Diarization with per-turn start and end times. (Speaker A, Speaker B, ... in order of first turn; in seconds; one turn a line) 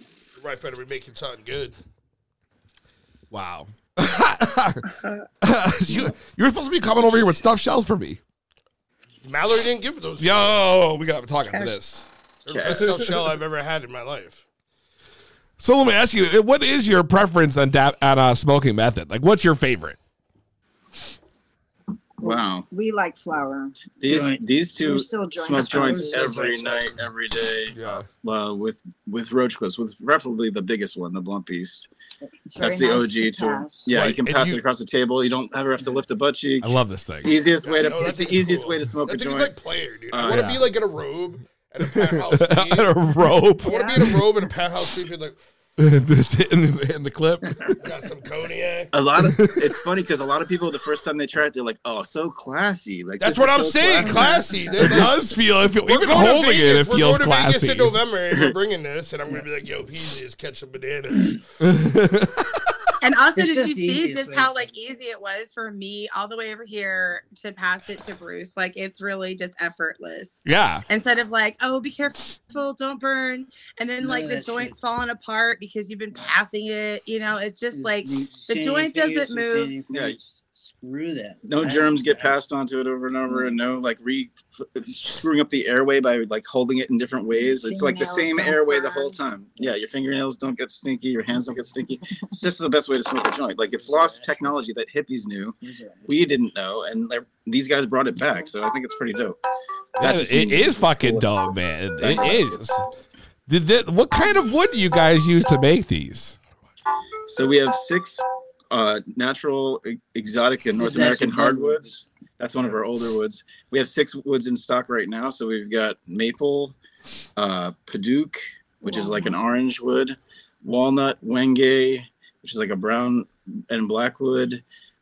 Speaker A: 0.4-1.7
Speaker B: 3.3-4.9
Speaker C: 5.0-5.2
Speaker B: 5.4-8.2
Speaker D: 5.9-6.2
Speaker A: 9.2-10.5
Speaker B: 10.2-12.1
Speaker C: 11.5-11.8
Speaker D: 12.4-13.0
Speaker A: 12.5-14.4
Speaker B: 15.6-20.0
Speaker D: 22.2-22.6
Speaker E: 22.2-23.8
Speaker D: 24.0-31.9
Speaker F: 24.0-24.4
Speaker E: 24.8-26.4
Speaker F: 25.4-26.9
Speaker A: 27.7-28.1
Speaker E: 32.4-33.9
Speaker D: 32.6-39.5
Speaker A: 33.9-34.6
Speaker B: 36.6-37.4
Speaker A: 37.6-43.0
Speaker D: 40.1-40.5
Speaker B: 40.2-40.6
Speaker B: 42.0-44.0
Speaker E: 43.6-44.1
Speaker A: 43.6-45.4
Speaker B: 45.8-47.7
Speaker A: 47.8-48.9
Speaker D: 48.9-54.4
Speaker B: 49.2-49.7
Speaker A: 53.2-55.2
Speaker B: 54.8-58.0
Speaker A: 55.9-61.4
Speaker D: 58.3-58.5
Speaker B: 61.6-62.5
Speaker C: 63.0-79.8
Speaker F: 63.3-64.7
Speaker B: 70.5-70.8
Speaker F: 74.0-74.7
Speaker F: 77.7-82.4
Speaker D: 79.9-80.2
Speaker D: 81.4-95.5
Speaker E: 87.3-89.2
Speaker F: 93.7-94.6
Speaker F: 95.6-96.4
Speaker D: 96.1-99.4
Speaker D: 100.0-102.6
Speaker B: 100.0-102.8
Speaker B: 103.5-106.4
Speaker D: 107.3-116.8
Speaker F: 110.8-111.8
Speaker D: 117.4-124.6